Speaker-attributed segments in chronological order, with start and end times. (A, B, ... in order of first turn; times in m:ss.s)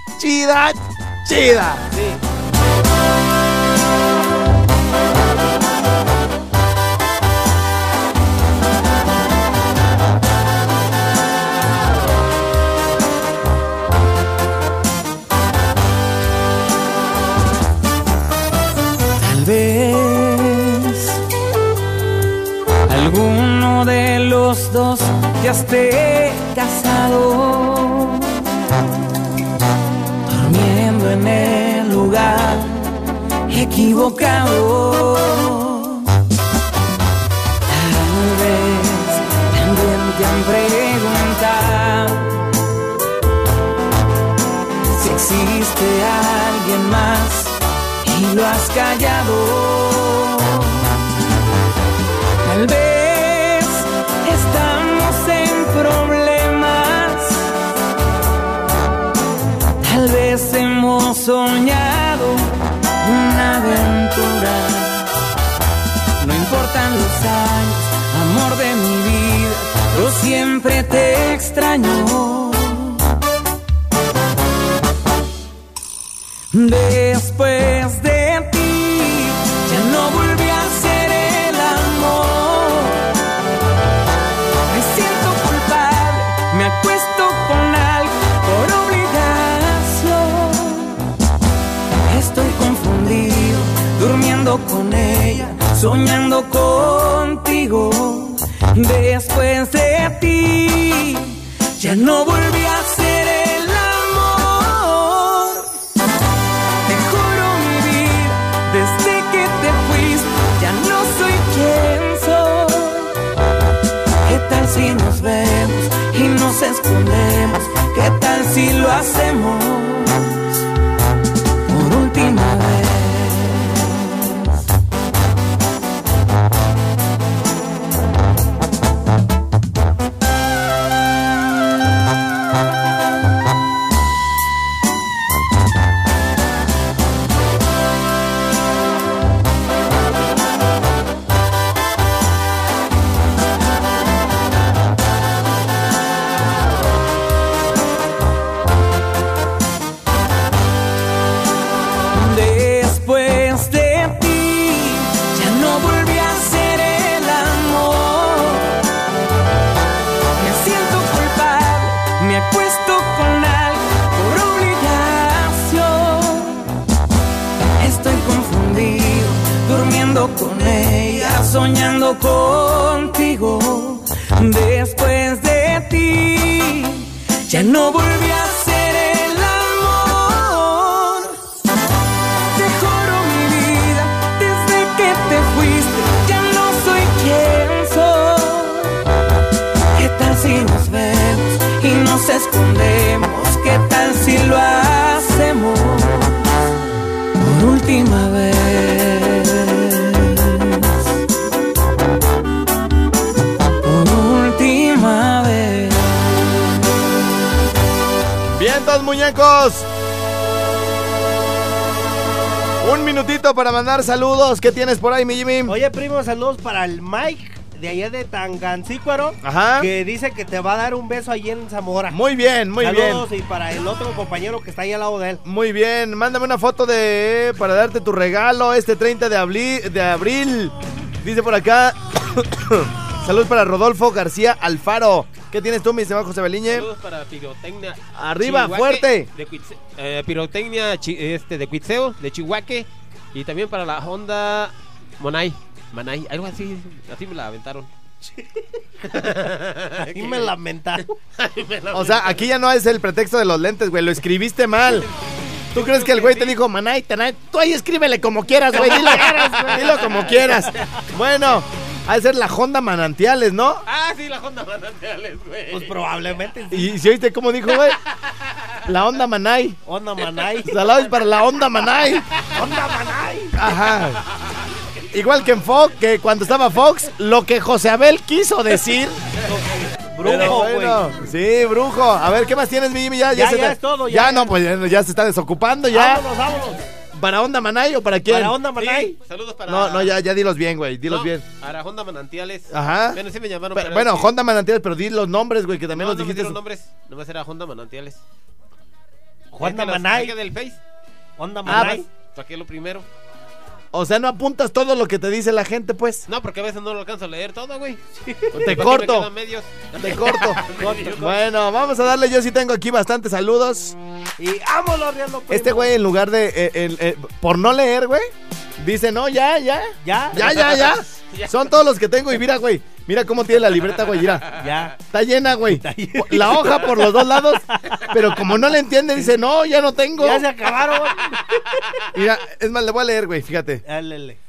0:00.2-0:01.9 A
0:01.9-0:02.2 B
0:19.2-0:21.1 C
0:22.9-0:28.4 C
0:30.3-0:32.9 C
0:33.5-0:36.1 C
0:37.7-0:42.4 C
0:44.9-0:51.0 C
0:52.4-0:57.5 C
0:59.8-1:05.1 C
1:06.2-1:13.0 C
1:16.5-1:23.1 C
1:24.7-1:31.0 C
1:32.0-1:45.7 C
1:46.9-1:53.1 C
1:54.2-2:00.4 C
2:01.7-2:04.5 C
2:32.1-2:38.8 C
2:40.4-2:46.7 C
2:47.8-3:01.4 C
3:02.5-3:09.0 C
3:09.9-3:16.3 C
3:17.4-3:20.9 C
3:23.8-3:26.2 C
3:28.5-3:29.9 A
3:32.8-3:35.8 A
3:35.7-3:42.2 D
3:39.4-3:39.9 A
3:42.1-3:43.2 A
3:42.8-3:45.4 D
3:45.4-3:56.9 A
3:56.7-4:07.9 B
3:58.1-3:59.3 A
4:08.3-4:09.3 D
4:09.1-4:10.5 B
4:10.0-4:11.2 D
4:11.4-4:12.5 B
4:11.9-4:15.1 A
4:15.7-4:23.8 A
4:15.8-4:16.5 D
4:15.8-4:16.5 B
4:18.7-4:20.8 D
4:18.8-4:19.3 B
4:23.9-4:25.9 B
4:25.7-4:26.9 D
4:26.7-4:28.0 A
4:28.9-4:29.8 A
4:29.8-4:30.8 D
4:30.6-4:32.2 A
4:32.5-4:33.5 D
4:33.5-4:34.2 A
4:35.1-4:39.2 A
4:39.4-4:41.1 D
4:40.2-4:46.2 A
4:43.3-4:44.5 D
4:45.9-4:46.8 D
4:47.1-4:48.6 A
4:48.2-4:49.2 D
4:48.8-4:50.2 B
4:49.7-4:51.4 A
4:51.1-4:54.3 B
4:52.7-4:53.2 A
4:53.7-4:56.6 A
4:55.9-4:58.2 B
4:59.5-5:00.4 D
4:59.6-5:00.8 B
5:01.4-5:02.1 D
5:01.6-5:02.0 A
5:01.7-5:03.0 B
5:03.9-5:06.2 A
5:06.3-5:08.0 B
5:08.2-5:08.7 D
5:08.5-5:09.3 A
5:08.5-5:11.2 B
5:10.0-5:10.6 A
5:10.2-5:11.4 D
5:11.2-5:13.9 A
5:14.4-5:15.9 D
5:15.5-5:18.3 A
5:18.8-5:24.5 A
5:20.0-5:20.9 D
5:23.6-5:24.9 B
5:24.6-5:25.0 D
5:25.0-5:30.5 A
5:25.7-5:28.2 D
5:30.1-5:31.8 D
5:32.1-5:33.8 A
5:33.8-5:34.4 D